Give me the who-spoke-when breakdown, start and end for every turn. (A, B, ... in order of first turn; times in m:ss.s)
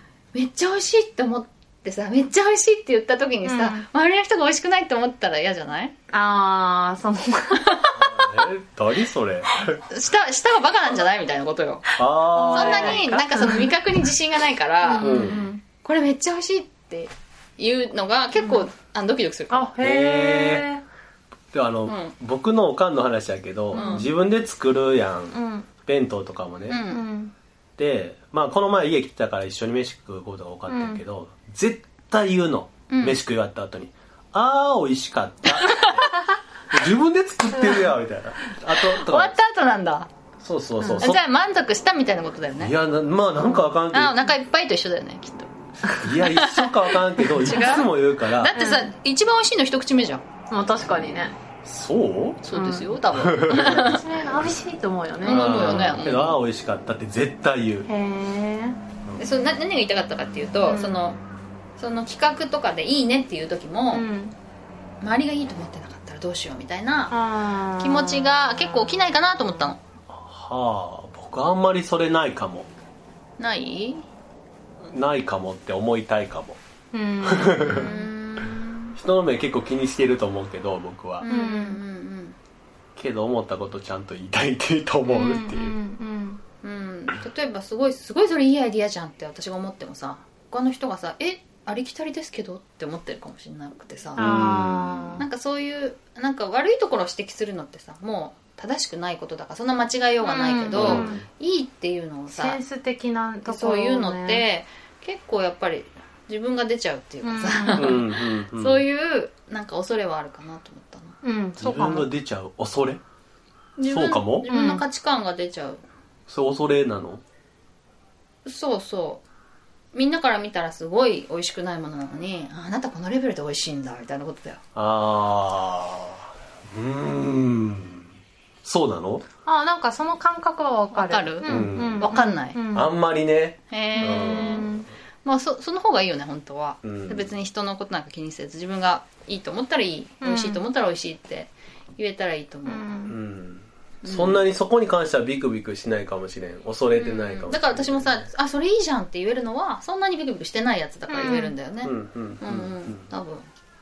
0:00.3-0:05.9 A
0:03.4-0:03.8 B
0:06.1-0:07.8 B
0:07.6-0:08.3 A
0:07.9-0:09.8 C
0:09.9-0:19.7 A
0:12.0-0:13.0 C
0:12.2-0:13.8 B
0:14.8-0:15.6 B
0:15.0-0:15.4 C
0:18.4-0:18.7 B
0:19.5-0:20.8 B
0:19.8-0:20.7 C
0:21.5-0:26.8 C
0:21.8-0:22.1 A
0:23.7-0:24.1 A
0:23.7-0:24.1 B
0:25.3-0:25.7 B
0:26.7-0:27.0 A
0:26.9-0:27.3 B
0:27.8-0:36.0 C
0:30.7-0:31.0 B
0:32.9-0:33.2 A
0:35.6-0:36.1 A
0:36.7-0:39.4 C
0:37.6-0:37.9 B
0:38.7-0:40.1 A
0:40.4-0:41.2 C
0:40.8-0:41.1 B
0:41.0-0:42.8 A
0:42.6-0:44.2 C
0:43.9-0:45.5 A
0:46.0-0:48.5 C
0:46.2-0:50.2 A
0:48.5-0:48.9 B
0:50.5-0:51.3 B
0:51.6-0:52.5 C
0:52.4-0:54.0 A
0:52.5-0:52.9 B
0:53.1-0:53.8 C
0:53.5-0:56.0 B
0:55.2-0:56.4 A
0:55.2-0:57.9 C
0:57.9-0:58.8 B
0:59.2-1:01.2 A
1:00.6-1:01.1 B
1:01.8-1:04.0 A
1:03.9-1:04.4 B
1:05.0-1:07.2 A
1:07.1-1:09.1 B
1:07.8-1:09.8 A
1:10.1-1:12.7 C
1:13.4-1:14.1 A
1:14.8-1:16.6 C
1:16.9-1:18.1 B
1:17.2-1:17.9 C
1:17.6-1:19.0 A
1:19.0-1:21.3 C
1:21.2-1:22.4 A
1:21.3-1:21.8 B
1:23.0-1:25.7 C
1:25.1-1:26.4 B
1:26.6-1:34.3 A
1:34.1-1:35.2 B
1:34.2-1:35.2 C
1:35.2-1:42.6 A
1:40.2-1:41.2 B
1:40.7-1:41.2 C
1:42.3-1:44.4 B
1:43.4-1:51.1 A
1:47.2-1:48.0 B
1:47.7-1:48.8 C
1:51.2-1:52.1 B
1:51.6-1:53.0 C
1:53.8-1:55.8 A
1:53.9-1:54.5 C
1:54.4-1:54.8 B
1:56.3-1:57.2 C
1:58.4-1:59.2 A
1:59.9-2:04.6 A
2:04.7-2:08.1 C
2:08.6-2:09.2 C
2:09.4-2:12.9 B
2:10.9-2:12.6 A
2:11.4-2:12.1 C
2:12.7-2:14.9 C
2:13.7-2:14.7 A
2:14.0-2:14.9 B
2:15.2-2:23.1 A
2:16.8-2:17.3 C
2:20.2-2:20.6 B
2:22.6-2:23.1 B
2:23.1-2:28.3 C
2:24.0-2:24.4 A
2:26.9-2:33.5 A
2:31.1-2:31.6 B
2:31.8-2:33.1 C